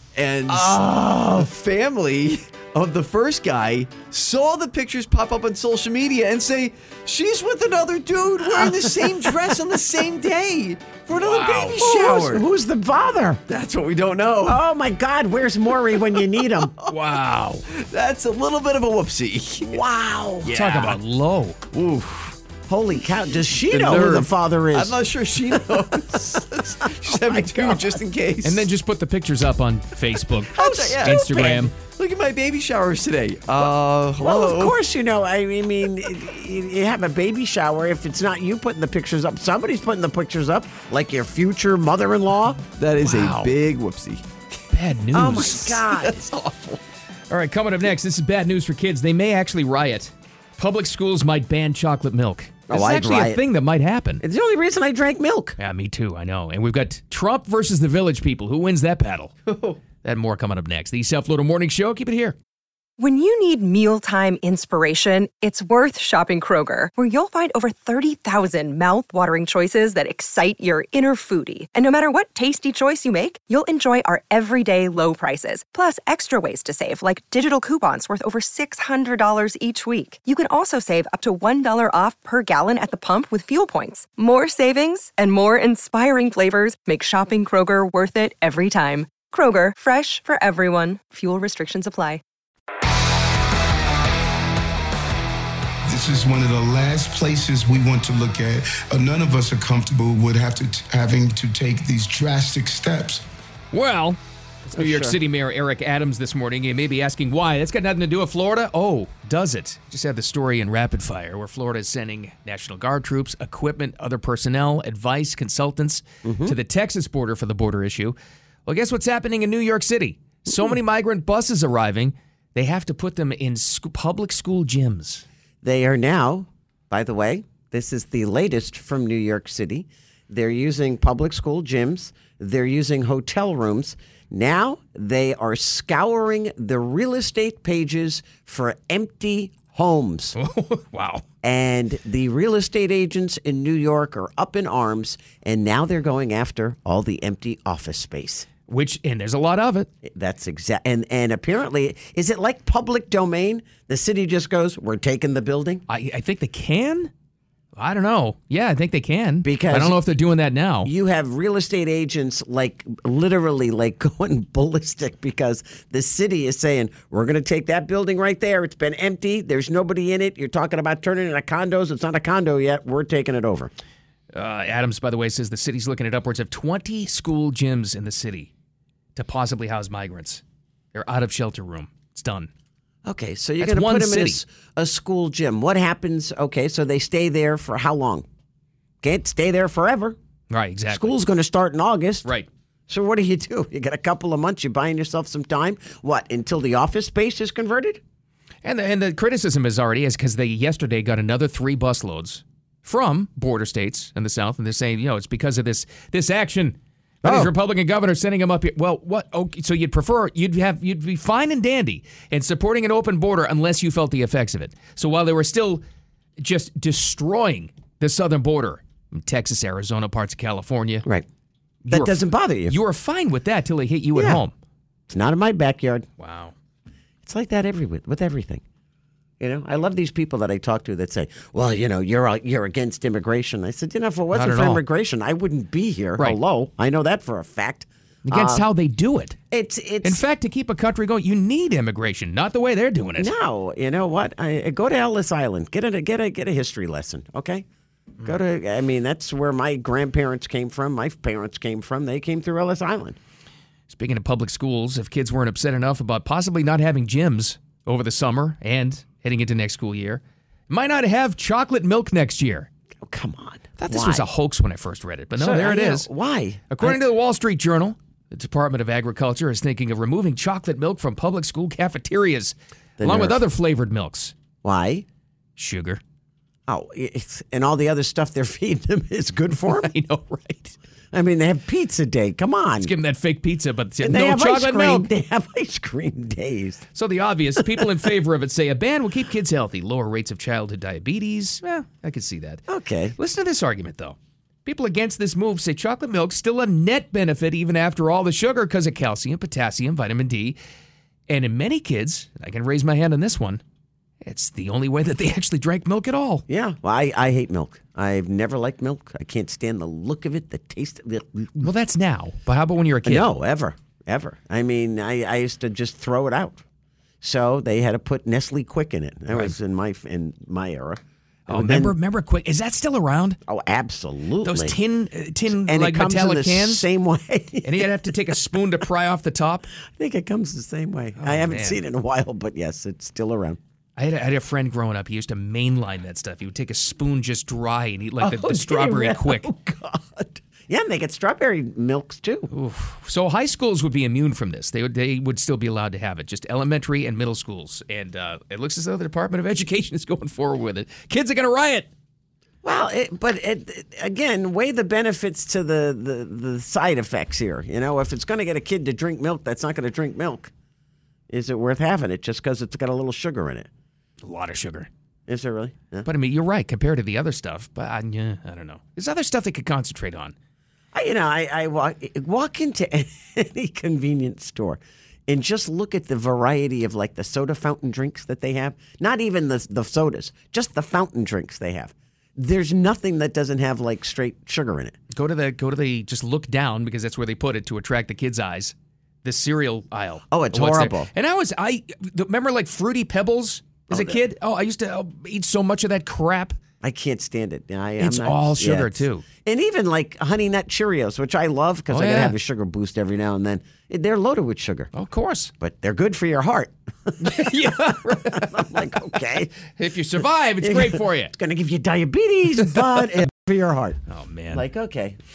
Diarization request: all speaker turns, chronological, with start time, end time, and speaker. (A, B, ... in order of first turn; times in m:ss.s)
0:00.1-0:12.4 A
0:00.5-0:01.5 B
0:08.4-0:09.5 B
0:11.1-0:11.8 C
0:11.7-0:13.4 B
0:13.5-0:14.6 A
0:14.4-0:16.7 B
0:16.1-0:17.0 A
0:16.9-0:17.6 C
0:17.7-0:19.8 A
0:19.7-0:20.5 B
0:20.4-0:21.0 A
0:20.5-0:21.6 C
0:21.7-0:22.4 A
0:22.7-0:28.0 B
0:23.6-0:28.7 A
0:28.4-0:31.7 C
0:30.5-0:34.8 A
0:30.5-0:31.4 B
0:33.6-0:42.6 B
0:42.8-0:44.2 A
0:43.0-0:43.5 C
0:44.7-0:45.8 C
0:45.1-0:46.3 B
0:46.0-0:46.8 A
0:47.3-0:54.2 C
0:52.7-0:53.4 B
0:54.2-0:55.6 B
0:55.6-0:59.3 C
0:59.5-0:59.8 A
1:00.0-1:02.4 C
1:03.0-1:32.2 D
1:35.9-1:43.2 E
1:43.7-2:05.2 C
1:44.8-1:45.2 B
1:56.2-1:56.6 B
2:05.6-2:20.4 B
2:20.4-2:21.2 C
2:21.4-2:28.5 B
2:28.7-2:29.9 C
2:30.0-2:35.8 B
2:35.9-2:37.1 C
2:37.8-2:40.9 C
2:39.4-2:40.0 B
2:40.8-2:53.7 B
2:54.3-2:58.5 C
2:59.2-3:00.4 C
3:00.9-3:02.5 C
3:03.0-3:08.2 B
3:03.6-3:04.4 C
3:09.0-3:10.2 B
3:10.5-3:11.2 C
3:10.9-3:12.3 B
3:12.9-3:18.0 B
3:18.6-3:35.8 C
3:36.4-3:41.0 C
3:41.9-3:44.5 C
3:41.9-3:42.8 B
3:44.1-3:44.4 B
3:45.1-3:46.1 B
3:46.2-3:46.5 C
3:47.2-3:48.6 B
3:49.4-3:58.6 B
3:54.3-3:54.8 C
3:58.2-3:59.4 C
3:59.5-4:00.2 B
4:00.0-4:03.3 C
4:03.2-4:07.6 B
4:08.2-4:13.2 B
4:13.9-4:22.7 C
4:23.0-4:24.3 B
4:23.8-4:26.1 C
4:25.4-4:27.0 B
4:26.7-4:34.3 C
4:33.0-4:33.4 B
4:34.6-4:35.0 B
4:35.6-4:36.0 C
4:36.7-4:39.9 B
4:39.8-4:40.7 C
4:41.1-4:42.9 B
4:42.8-4:45.1 C
4:44.0-4:46.8 B
4:46.9-4:52.6 C
4:52.7-4:53.1 B
4:53.2-5:00.6 C
5:01.3-5:03.6 C
5:04.2-5:06.4 C
5:06.5-5:11.7 B
5:11.6-5:13.3 C
5:13.0-5:16.6 B
5:17.2-5:21.9 B
5:21.5-5:23.4 C
5:23.4-5:24.8 B
5:24.4-5:26.8 C
5:25.5-5:28.2 B
5:27.6-5:29.7 C
5:29.9-5:33.6 B
5:31.2-5:31.8 C
5:34.0-5:39.5 C
5:38.2-5:42.5 B
5:42.5-5:51.9 C
5:52.6-6:00.5 B
6:01.3-6:03.7 B
6:04.2-6:04.9 C
6:05.3-6:06.1 B
6:06.0-6:10.4 C
6:10.9-6:25.0 B
6:25.1-6:36.6 C
6:30.3-6:31.1 B
6:33.9-6:34.2 B
6:36.8-6:44.9 B
6:38.0-6:39.2 C
6:41.9-6:42.4 C
6:44.9-6:45.5 C
6:45.6-6:49.5 B
6:47.2-6:48.7 C
6:49.8-6:51.3 C
6:50.6-6:54.0 B
6:54.1-6:54.6 C
6:54.5-6:55.2 B